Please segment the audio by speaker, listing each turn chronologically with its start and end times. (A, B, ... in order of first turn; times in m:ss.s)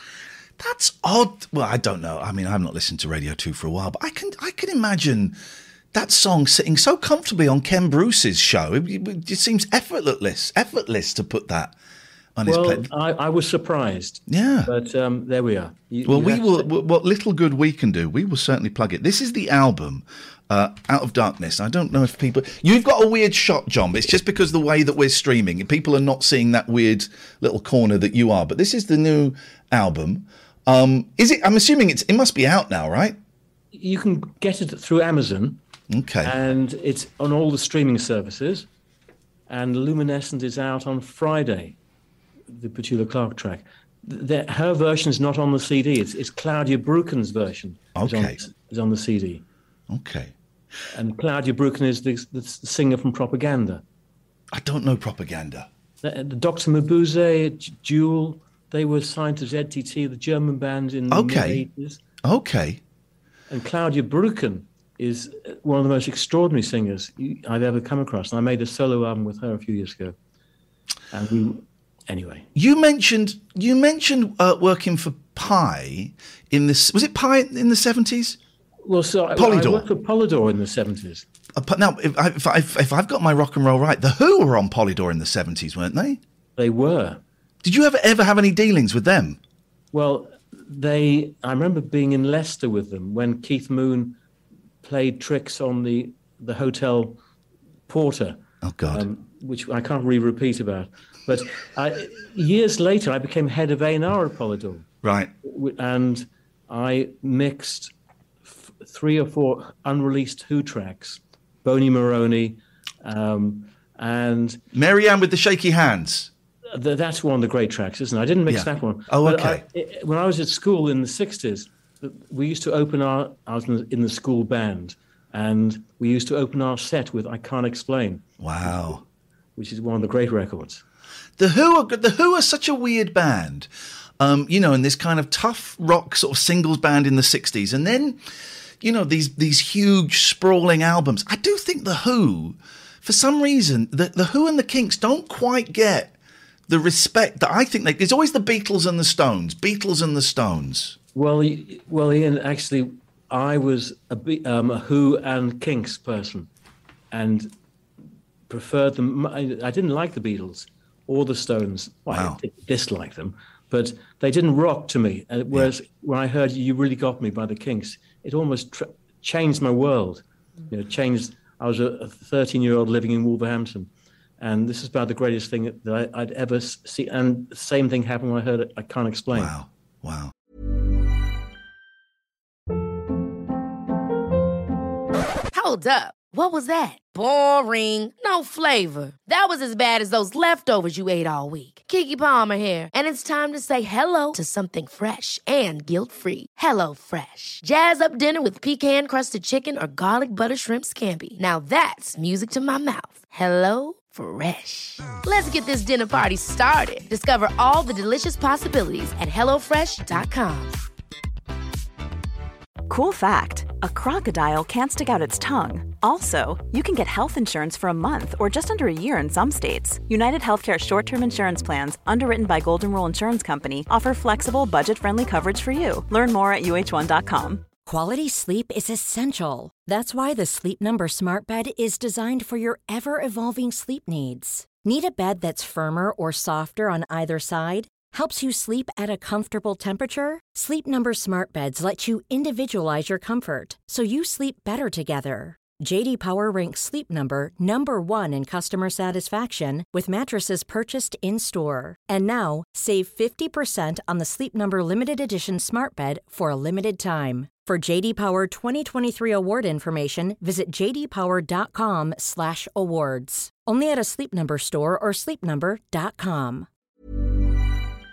0:00.6-0:05.4 A
0:05.9-0:11.7 A
0:12.4-0:12.9 A
0:12.4-0:16.7 B
0:14.3-0:14.7 A
0:16.0-0:33.2 A
0:33.7-0:35.6 B
0:35.9-0:36.3 A
0:36.2-0:38.7 B
0:39.5-0:41.8 B
0:42.5-0:49.4 B
0:48.0-0:48.4 A
0:49.9-0:50.3 A
0:50.9-0:53.8 B
0:54.5-0:55.7 A
0:56.0-1:02.0 B
1:01.1-1:01.6 A
1:02.2-1:02.8 A
1:03.5-1:10.2 B
1:11.1-1:12.5 B
1:12.5-1:18.4 A
1:18.8-1:21.2 B
1:19.4-1:19.9 A
1:21.6-1:26.2 A
1:26.6-1:27.2 B
1:27.6-1:29.4 A
1:29.9-1:34.2 B
1:34.8-1:37.2 B
1:37.9-1:44.8 B
1:38.6-1:39.0 A
1:45.0-1:45.3 A
1:45.4-1:47.9 B
1:48.4-1:54.6 B
1:54.7-1:56.3 A
1:56.7-2:08.9 B
1:58.5-1:59.6 A
2:08.4-2:09.0 A
2:09.6-2:10.8 B
2:11.4-2:18.2 A
2:18.8-2:26.1 A
2:26.7-2:31.0 A
2:31.1-2:36.5 B
2:37.1-2:37.5 B
2:38.5-2:59.5 B
2:42.1-2:42.4 A
2:59.3-3:00.3 A
3:05.5-3:30.8 C
3:32.9-3:47.6 D
3:47.8-4:26.7 E